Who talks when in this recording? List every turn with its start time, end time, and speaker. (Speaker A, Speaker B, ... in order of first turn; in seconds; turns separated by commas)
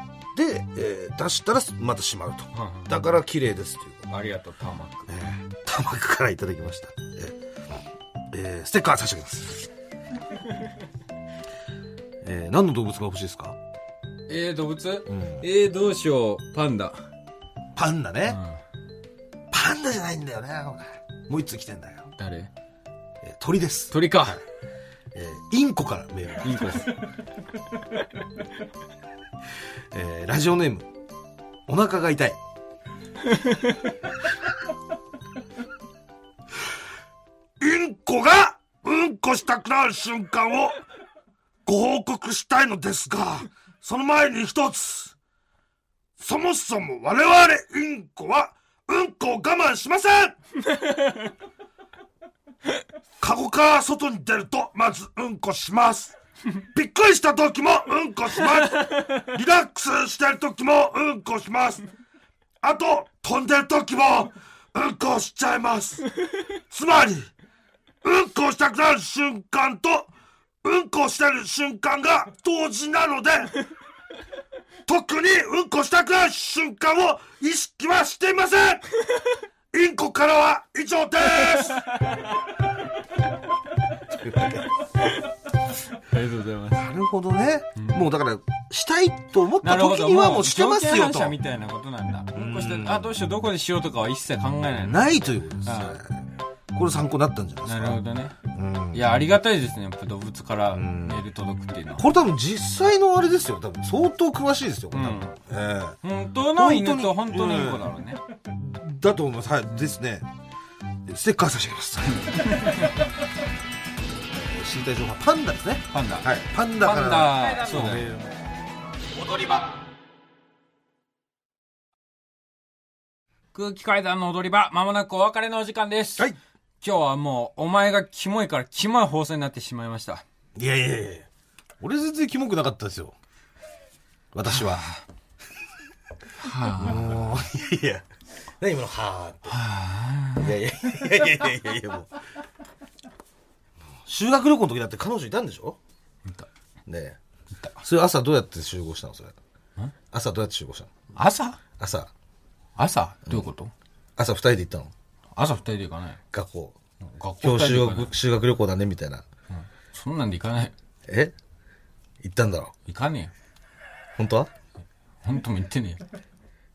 Speaker A: 0.3-4.1, Speaker B: 2.5-3.0, Speaker B: 4.1-5.1, Speaker A: 5.1-7.4, Speaker A: 8.3-9.7, Speaker A: 12.2-13.6, Speaker B: 14.3-17.0, Speaker A: 15.1-15.4, Speaker A: 17.8-18.4, Speaker B: 18.3-18.6, Speaker A: 19.5-22.1, Speaker B: 22.2-22.5, Speaker A: 23.2-24.4, Speaker B: 23.9-24.4, Speaker A: 25.1-27.0, Speaker B: 26.4-27.0, Speaker A: 29.9-30.9, Speaker A: 31.7-32.4, Speaker B: 33.3-33.8, Speaker C: 37.6-40.8, Speaker C: 41.7-45.1, Speaker C: 46.2-50.4, Speaker B: 50.7-51.3, Speaker C: 53.2-56.1, Speaker C: 56.7-61.9, Speaker C: 62.6-66.1, Speaker C: 66.7-67.3, Speaker C: 68.0-70.1, Speaker C: 70.6-73.6, Speaker C: 74.9-78.9, Speaker C: 79.7-81.8, Speaker A: 84.1-84.7, Speaker B: 85.9-86.9, Speaker A: 86.8-91.4, Speaker B: 87.8-88.1, Speaker B: 89.6-96.0, Speaker A: 92.3-93.1, Speaker A: 94.7-98.0, Speaker B: 97.7-98.4, Speaker A: 98.5-99.2, Speaker B: 98.9-102.0, Speaker A: 100.7-101.2, Speaker A: 102.0-107.9, Speaker B: 104.9-105.4, Speaker B: 106.0-108.2, Speaker A: 108.5-110.3, Speaker A: 111.1-112.4, Speaker B: 112.2-112.9, Speaker A: 114.3-118.3, Speaker B: 115.9-118.1, Speaker A: 119.2-119.8, Speaker B: 123.5-130.2, Speaker A: 130.6-131.3, Speaker A: 131.8-133.2, Speaker A: 134.3-134.9, Speaker B: 136.4-137.2, Speaker A: 136.8-138.1, Speaker A: 138.6-139.6, Speaker B: 139.5-140.5, Speaker A: 140.4-142.1, Speaker A: 144.1-145.8, Speaker A: 146.9-147.2, Speaker A: 147.8-149.4, Speaker A: 150.1-150.9, Speaker B: 151.2-151.6, Speaker A: 151.8-152.1, Speaker B: 152.8-153.7, Speaker A: 154.2-154.9, Speaker B: 155.3-156.2, Speaker A: 156.3-156.8, Speaker B: 157.1-158.1, Speaker A: 157.4-159.3, Speaker B: 159.5-160.7, Speaker A: 161.1-161.3, Speaker A: 162.2-162.7, Speaker B: 162.9-163.3, Speaker A: 164.2-164.5, Speaker B: 165.2-166.0